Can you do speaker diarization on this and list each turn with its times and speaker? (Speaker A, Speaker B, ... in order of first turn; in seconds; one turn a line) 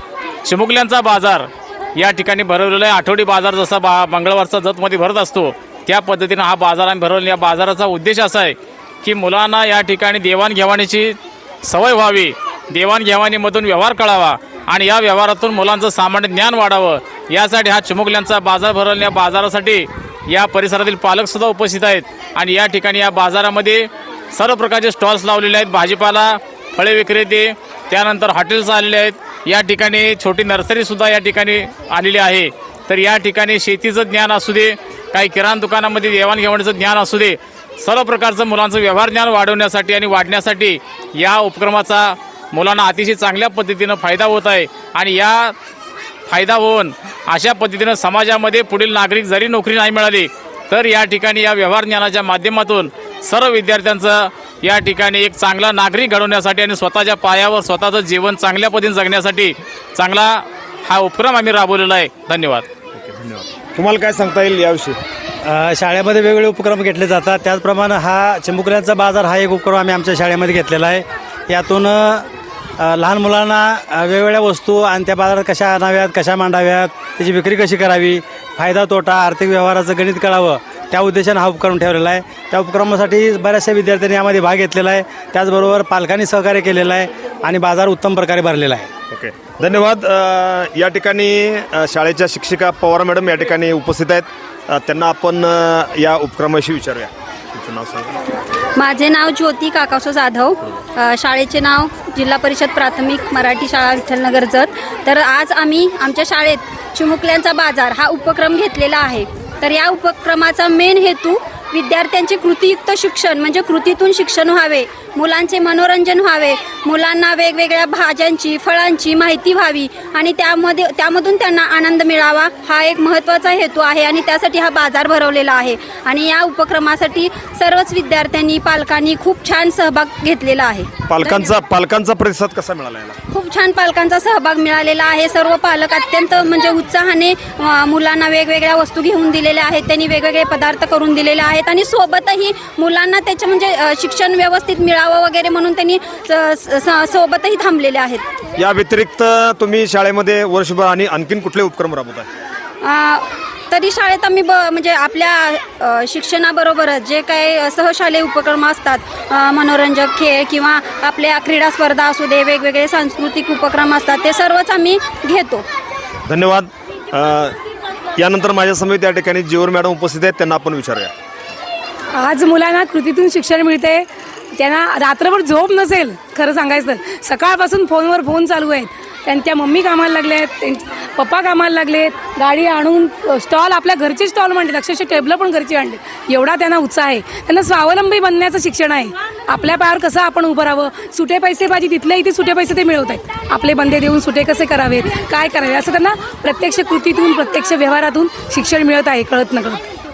Speaker A: 0.5-45.5
Speaker A: 46.3-62.6
Speaker B: 62.9-65.0
Speaker C: 65.4-72.3
Speaker C: 72.8-88.9
Speaker B: 89.1-98.2
Speaker D: 98.8-131.4
Speaker B: 131.1-133.2
Speaker D: 133.3-148.2
Speaker B: 148.6-152.3
Speaker D: 152.8-165.7
Speaker B: 166.3-167.6
Speaker B: 168.2-171.1
Speaker E: 172.1-199.8